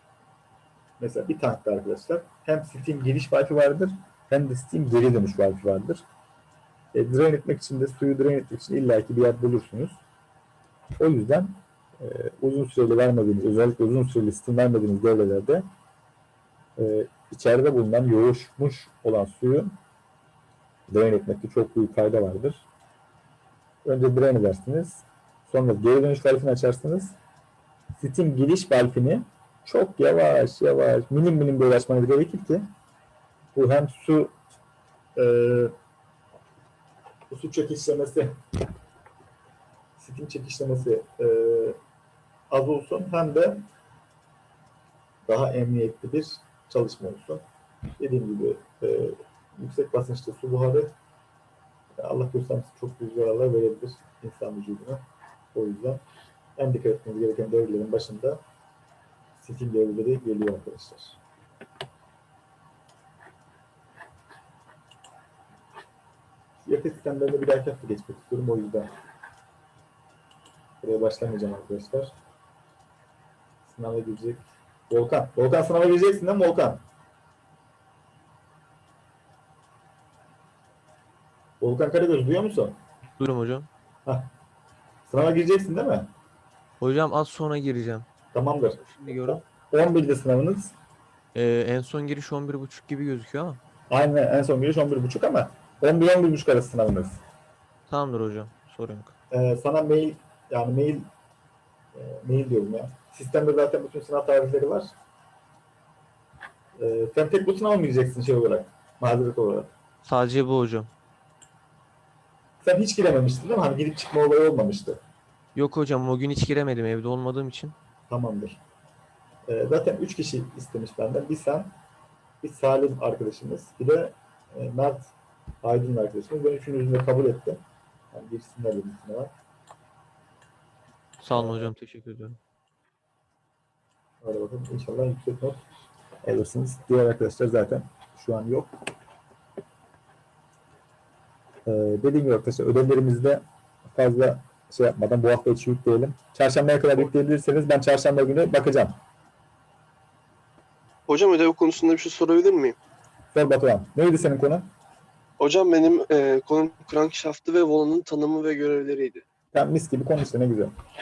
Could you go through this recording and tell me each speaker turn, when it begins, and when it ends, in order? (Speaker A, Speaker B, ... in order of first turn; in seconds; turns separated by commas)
Speaker A: 1.0-6.0, Speaker A: 6.9-10.0, Speaker A: 11.0-15.6, Speaker A: 16.8-19.7, Speaker A: 20.9-22.7, Speaker A: 23.9-27.1, Speaker A: 28.0-32.6, Speaker A: 33.5-34.4, Speaker A: 35.2-35.7, Speaker A: 37.3-38.4, Speaker A: 40.0-41.8, Speaker A: 42.5-43.6, Speaker A: 45.3-47.4, Speaker A: 48.0-50.9, Speaker A: 52.0-55.0, Speaker A: 55.5-56.0, Speaker A: 56.6-58.4, Speaker A: 59.4-61.2, Speaker A: 66.6-68.9, Speaker A: 70.8-72.1, Speaker A: 73.7-76.8, Speaker A: 81.6-82.8, Speaker B: 83.2-83.7, Speaker A: 85.1-86.1, Speaker B: 86.8-88.1, Speaker A: 88.3-90.7, Speaker B: 88.8-89.4, Speaker B: 91.3-93.6, Speaker A: 93.9-97.2, Speaker B: 97.9-99.1, Speaker A: 99.3-101.0, Speaker A: 102.0-104.9, Speaker A: 106.8-109.7, Speaker B: 110.0-110.9, Speaker A: 112.6-115.0, Speaker B: 115.5-117.8, Speaker A: 118.1-118.6, Speaker A: 119.5-121.7, Speaker A: 122.4-127.6, Speaker A: 128.1-129.3, Speaker B: 131.2-132.4, Speaker A: 131.3-131.7, Speaker A: 134.2-135.6, Speaker A: 136.2-138.7, Speaker A: 141.7-148.9, Speaker C: 151.1-152.8, Speaker A: 153.3-154.7, Speaker C: 155.4-159.2, Speaker A: 159.5-160.7